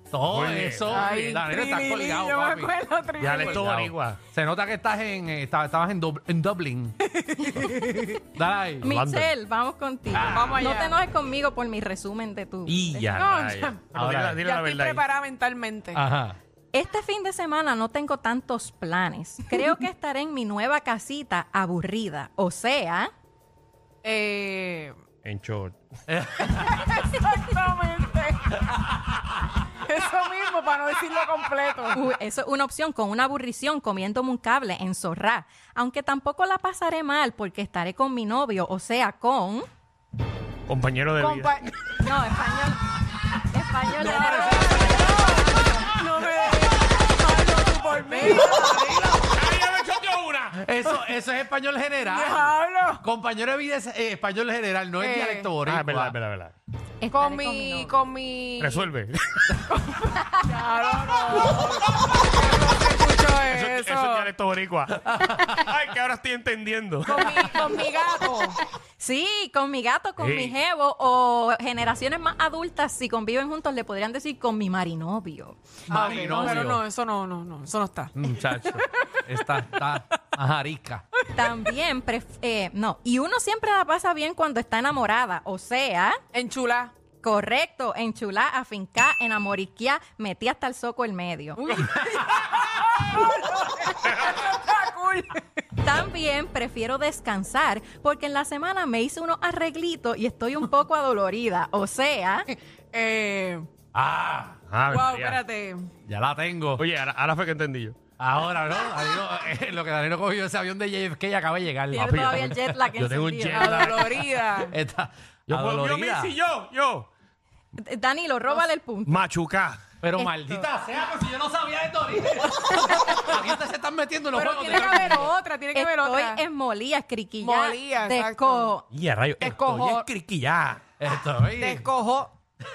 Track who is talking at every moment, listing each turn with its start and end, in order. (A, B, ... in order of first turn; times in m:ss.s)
0:00.1-0:02.8 A
0:00.3-0:01.1 B
0:00.9-0:03.6 C
0:03.2-0:04.2 B
0:03.4-0:07.0 A
0:07.1-0:08.2 C
0:08.3-0:08.9 A
0:08.8-0:13.2 D
0:08.8-0:09.3 B
0:10.1-0:10.5 A
0:10.2-0:11.0 C
0:12.7-0:15.0 B
0:13.1-0:16.0 C
0:13.9-0:14.4 A
0:15.9-0:16.4 A
0:16.7-0:23.1 D
0:24.0-0:24.9 C
0:25.2-0:25.8 B
0:26.1-0:27.0 A
0:26.8-0:28.7 C
0:29.7-0:32.0 C
0:31.9-0:39.6 D
0:40.7-0:41.5 B
0:41.2-0:41.9 C
0:42.0-0:42.8 D
0:43.3-0:45.8 D
0:43.9-0:45.5 A
0:44.2-0:49.2 C
0:48.1-0:49.2 A
0:49.2-0:50.6 B
0:50.5-0:56.1 A
0:52.0-0:53.0 C
0:55.0-0:55.6 C
0:55.6-0:56.5 B
0:57.0-0:58.0 D
0:57.1-0:58.9 C
0:58.6-0:59.6 B
0:59.6-1:04.3 C
1:00.2-1:00.4 D
1:03.4-1:07.7 B
1:07.0-1:08.6 C
1:09.0-1:15.6 D
1:10.2-1:10.6 B
1:15.9-1:16.8 A
1:15.9-1:18.1 C
1:18.2-1:21.0 A
1:18.6-1:19.2 C
1:21.3-1:26.2 D
1:26.3-1:26.9 C
1:27.2-1:31.8 D
1:31.6-1:35.4 C
1:35.8-1:42.5 D
1:42.5-1:43.7 C
1:43.9-1:44.6 A
1:44.7-1:45.4 B
1:44.9-1:45.9 C
1:46.1-1:46.8 A
1:46.8-1:48.0 B
1:48.2-1:52.8 A
1:51.9-1:54.0 D
1:52.0-1:54.2 B
1:53.5-1:54.7 C
1:54.7-1:56.4 A
1:55.5-1:57.1 B
1:57.8-1:59.1 D
1:59.1-1:59.8 B
2:00.0-2:05.4 A
2:00.1-2:00.6 D
2:04.3-2:06.4 C
2:05.7-2:08.8 D
2:07.4-2:08.8 C
2:08.9-2:10.8 B
2:09.4-2:10.1 C
2:11.0-2:11.8 A
2:11.6-2:12.3 C